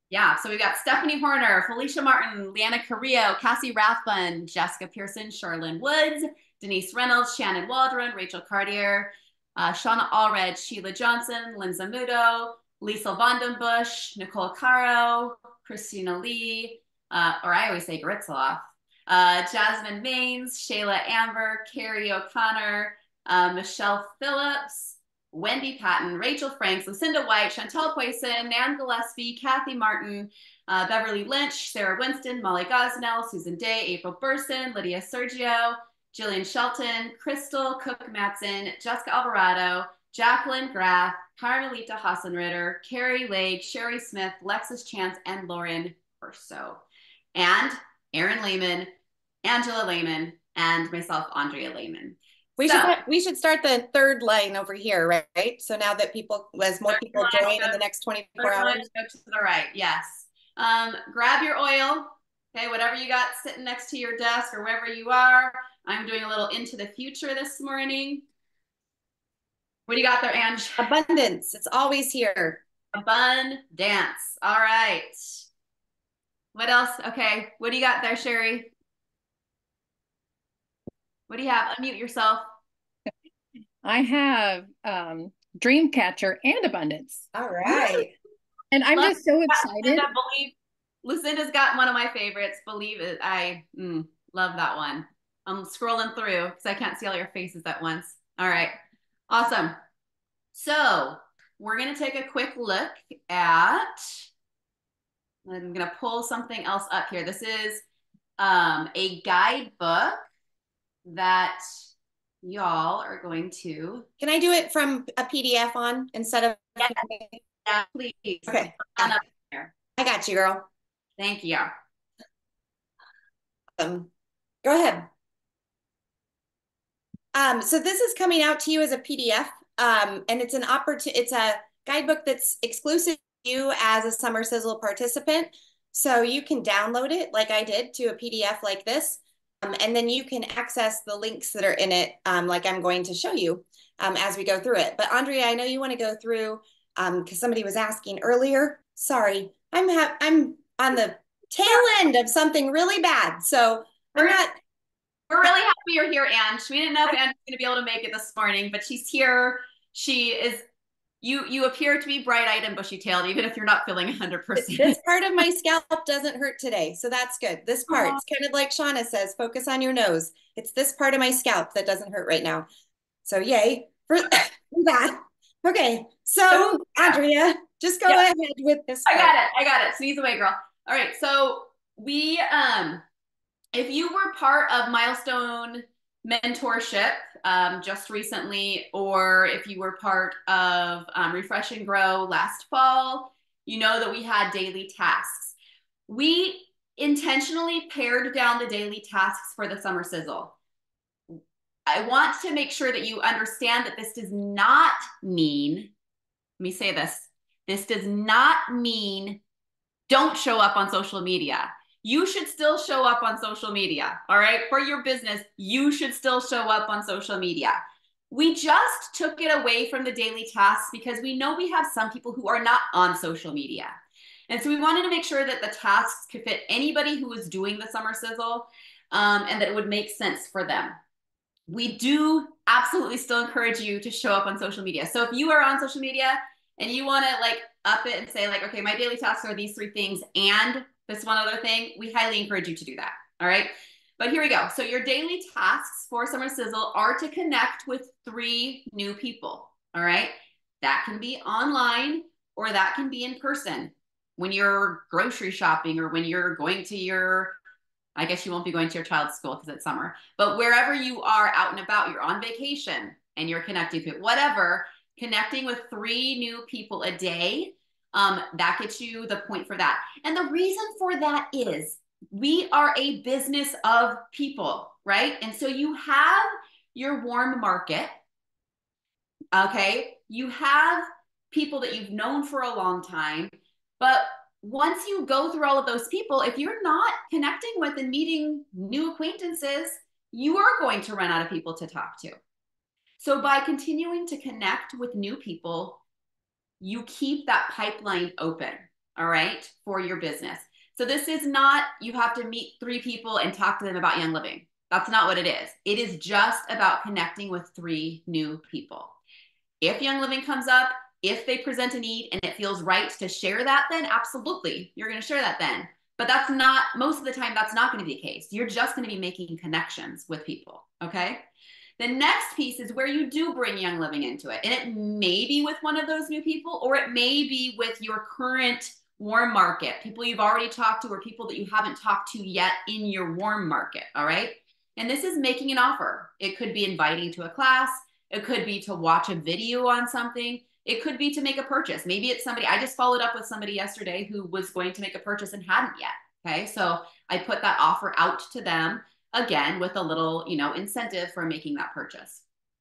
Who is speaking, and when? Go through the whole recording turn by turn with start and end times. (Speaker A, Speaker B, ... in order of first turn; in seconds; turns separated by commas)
Speaker A: 0.1-46.8, Speaker A: 47.4-48.9, Speaker A: 49.5-53.0, Speaker B: 52.6-58.9, Speaker A: 56.9-57.8, Speaker A: 58.4-68.2, Speaker A: 69.9-70.9, Speaker B: 70.8-72.6, Speaker A: 72.9-75.4, Speaker A: 76.5-78.7, Speaker A: 81.3-82.5, Speaker C: 83.8-87.3, Speaker B: 87.3-88.1, Speaker A: 87.7-88.0, Speaker C: 88.7-90.1, Speaker A: 89.0-98.8, Speaker A: 99.3-99.8, Speaker A: 100.5-104.3, Speaker A: 105.5-107.8, Speaker A: 108.4-110.3, Speaker A: 111.0-111.6, Speaker A: 112.4-114.1, Speaker B: 114.2-117.4, Speaker A: 117.7-119.7, Speaker B: 118.5-119.2, Speaker B: 120.0-120.7, Speaker A: 121.2-121.7, Speaker B: 123.8-124.1, Speaker B: 124.6-125.1, Speaker B: 127.3-154.6, Speaker A: 155.3-160.6, Speaker A: 161.2-165.0, Speaker B: 164.6-172.7, Speaker A: 167.9-168.2, Speaker B: 173.2-179.3, Speaker A: 176.5-177.2, Speaker A: 179.1-183.0, Speaker A: 183.7-195.6, Speaker A: 196.1-200.6, Speaker A: 201.9-205.9, Speaker A: 206.6-209.4, Speaker A: 210.1-217.8, Speaker A: 218.3-224.0, Speaker A: 224.5-231.0, Speaker A: 231.7-257.6, Speaker A: 258.2-278.1, Speaker A: 279.5-292.4, Speaker A: 293.2-296.0, Speaker A: 296.8-309.2, Speaker A: 309.8-321.4, Speaker A: 322.0-352.4